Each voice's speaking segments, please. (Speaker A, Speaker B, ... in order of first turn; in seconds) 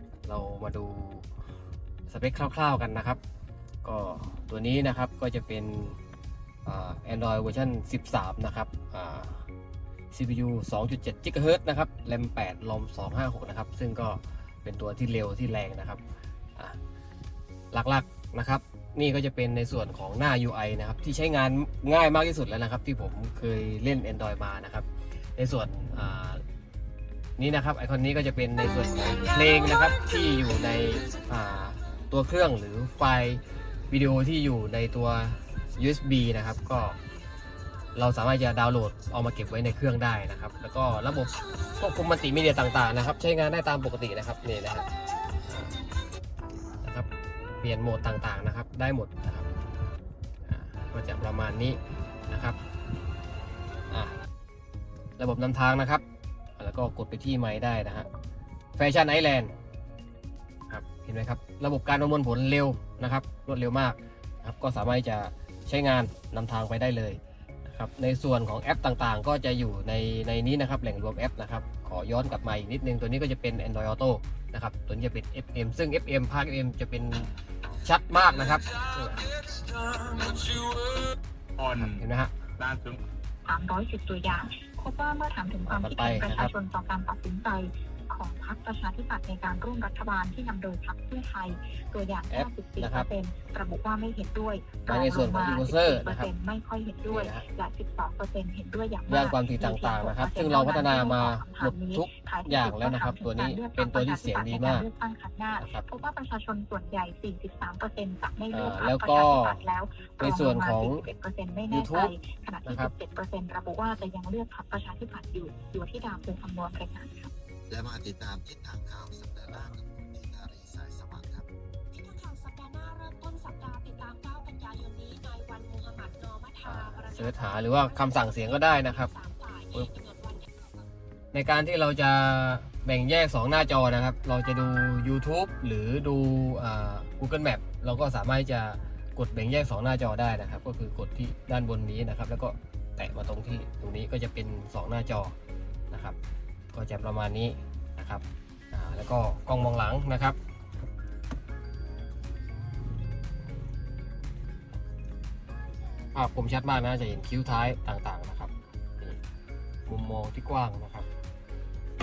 Speaker A: 0.2-1.3, 2.1-3.2, 3.8-6.0, 6.6-9.4, 10.1-16.0, 17.7-26.4, 27.4-37.0, 37.9-44.9, 46.8-47.1, 47.6-49.5, 50.4-51.8, 52.3-52.6, 55.2-56.0, 56.6-58.1, 58.8-59.5, 60.7-77.3, 77.8-79.4, 81.8-82.3, 85.7-86.5, 92.3-93.1, 94.9-96.3, 97.1-97.5, 99.1-104.9, 105.6-105.8, 108.5-109.6, 110.2-111.0, 111.7-112.1, 112.6-112.9, 126.6-129.1, 131.3-145.3, 145.9-146.2, 146.7-150.4, 156.1-159.2, 159.9-161.1
Speaker B: 79.4-82.0, 82.6-83.0
Speaker C: 83.5-117.3
Speaker D: 117.7-121.5
Speaker E: 121.9-130.5